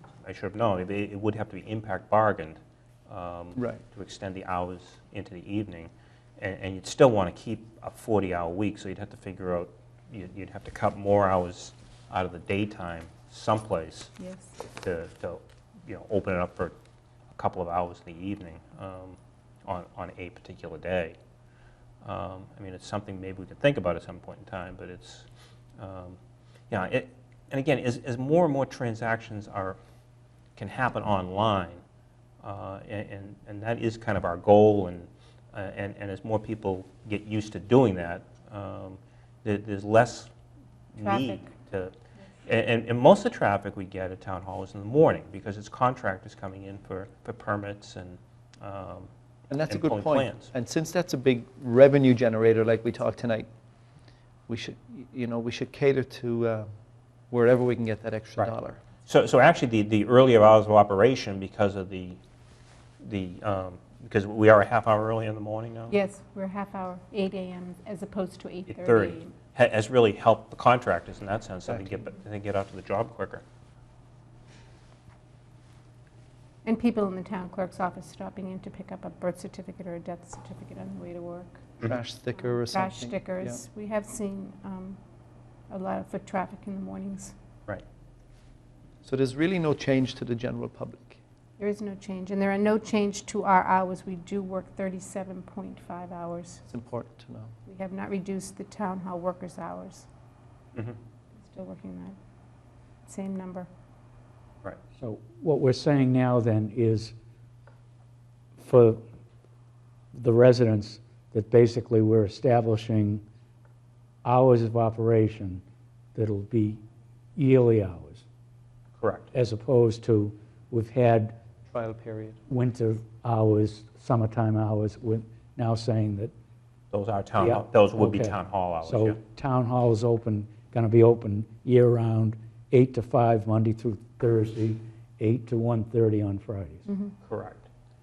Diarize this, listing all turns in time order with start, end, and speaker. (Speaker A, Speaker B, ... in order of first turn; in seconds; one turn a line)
Speaker A: 0.2-14.1
Speaker B: 3.6-3.8
Speaker C: 14.2-14.6
Speaker A: 14.7-16.8
Speaker A: 17.3-21.2
Speaker A: 22.0-26.2
Speaker A: 26.7-29.8
Speaker A: 30.6-31.8
Speaker A: 32.4-40.3
Speaker A: 40.9-41.9
Speaker C: 41.0-41.5
Speaker A: 42.5-49.1
Speaker B: 49.5-53.5
Speaker A: 49.7-50.5
Speaker B: 54.5-56.7
Speaker B: 57.3-58.8
Speaker A: 59.1-62.2
Speaker A: 63.0-65.9
Speaker C: 65.9-69.3
Speaker A: 68.7-73.4
Speaker C: 76.7-81.7
Speaker B: 81.8-83.6
Speaker C: 82.4-85.0
Speaker C: 85.7-87.3
Speaker B: 89.0-91.2
Speaker C: 91.6-96.6
Speaker B: 96.7-97.5
Speaker C: 97.7-100.1
Speaker C: 101.4-102.2
Speaker C: 103.1-103.7
Speaker D: 105.0-107.1
Speaker D: 108.6-109.0
Speaker D: 110.1-113.2
Speaker D: 114.2-115.6
Speaker D: 116.2-116.8
Speaker D: 117.4-118.2
Speaker A: 119.0-119.3
Speaker D: 119.3-121.4
Speaker B: 121.7-122.4
Speaker D: 122.5-126.3
Speaker A: 126.9-129.2
Speaker D: 127.4-136.9
Speaker C: 136.9-137.1
Speaker A: 137.2-137.7